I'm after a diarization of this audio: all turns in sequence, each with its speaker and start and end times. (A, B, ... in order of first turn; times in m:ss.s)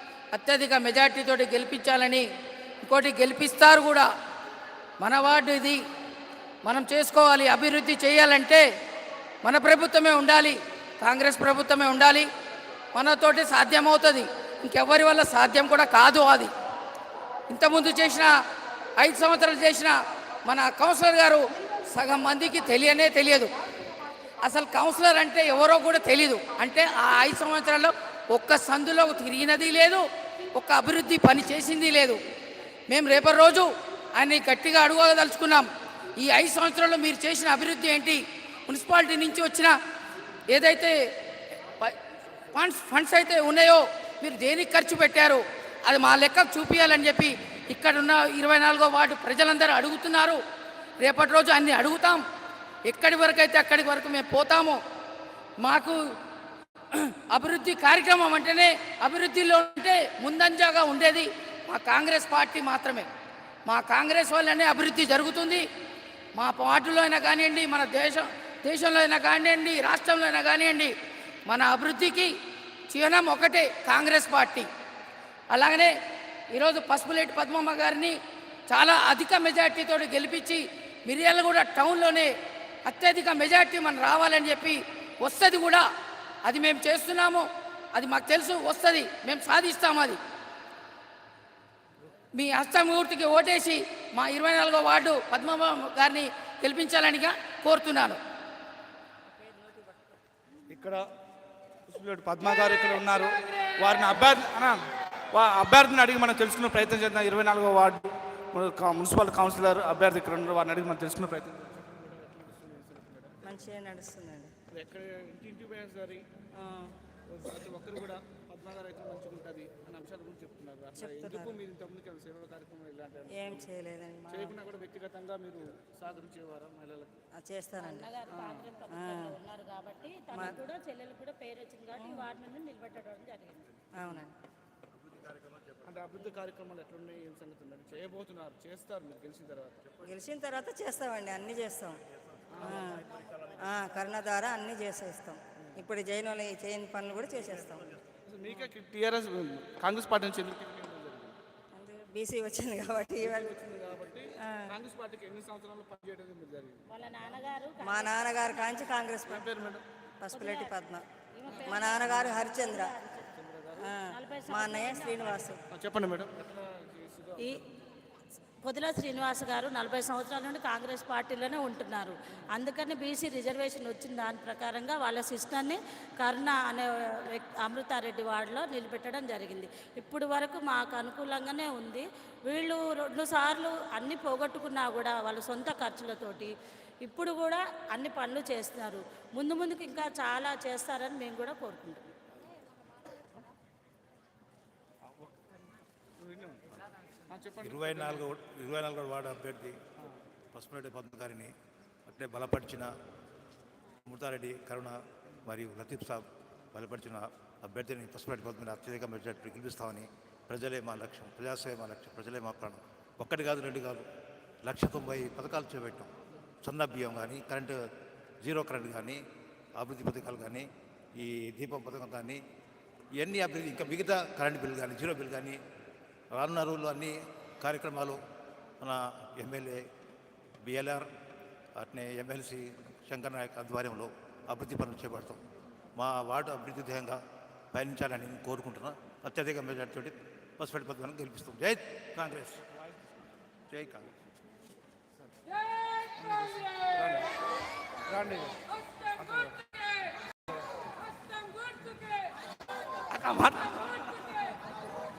0:00.3-0:02.2 A
0:02.8-0:04.1 A
0:05.0-0:05.8 A
0:06.6-0:08.6 A
0:09.4-0:12.3 A
0:12.9-0:16.5 A
0:17.5-0:18.3 A
0:19.0-0:19.9 A
0:20.5-0:23.5 A
0:24.4-0:32.2 A
0:32.9-0:39.7 A
0:40.5-0:40.9 A
0:42.5-0:50.4 A
0:51.0-0:52.2 A
0:52.9-0:54.8 A
0:55.6-0:56.0 A
0:56.9-1:03.1 A
1:03.7-1:05.6 A
1:06.3-1:10.9 A
1:11.5-1:12.3 A
1:12.9-1:14.7 A
1:15.5-1:15.9 A
1:16.5-1:18.2 A
1:18.7-1:22.3 A
1:22.9-1:25.8 A
1:26.4-1:30.2 A
1:32.3-1:38.2 A
1:39.3-1:40.2 B
1:40.7-1:41.1 C
1:41.9-1:53.4 C
1:53.4-1:54.5 B
1:54.7-1:56.2 C
1:57.3-2:03.7 C
2:01.0-2:01.6 B
2:03.3-2:04.5 B
2:04.3-2:07.1 C
2:07.4-2:08.1 B
2:07.8-2:13.8 D
2:08.3-2:08.8 C
2:08.9-2:09.4 B
2:10.3-2:10.6 B
2:12.0-2:12.3 B
2:14.0-2:14.3 B
2:15.1-2:15.7 E
2:15.8-2:20.0 C
2:20.0-2:22.0 B
2:22.5-2:22.9 C
2:22.6-2:23.0 B
2:22.9-2:23.3 E
2:23.6-2:27.9 B
2:28.3-2:31.4 C
2:31.7-2:33.5 B
2:33.2-2:37.4 C
2:34.4-2:34.8 B
2:36.9-2:39.0 D
2:37.8-2:39.5 B
2:39.3-2:39.8 C
2:40.2-2:41.0 B
2:40.3-2:40.7 D
2:41.4-2:43.2 D
2:41.5-2:42.3 C
2:41.6-2:43.0 B
2:43.1-2:44.0 C
2:43.8-2:45.6 B
2:44.0-2:45.5 D
2:45.7-2:47.7 C
2:48.6-3:12.0 D
3:15.1-3:15.4 C
3:16.2-3:16.6 C
3:17.3-3:18.3 C
3:17.6-3:19.8 E
3:20.5-3:21.5 E
3:22.1-3:22.9 E
3:24.0-3:34.1 E
3:34.6-3:36.1 E
3:36.6-3:37.8 E
3:38.4-3:39.2 E
3:39.8-3:42.4 E
3:43.2-3:45.6 E
3:46.3-3:48.2 E
3:48.8-3:49.8 E
3:50.6-3:51.1 E
3:51.8-3:55.4 E
3:56.0-3:57.2 E
3:57.7-4:02.6 E
4:03.7-4:04.1 E
4:06.2-4:07.3 C
4:08.1-4:08.6 C
4:09.2-4:09.6 C
4:13.1-4:14.6 C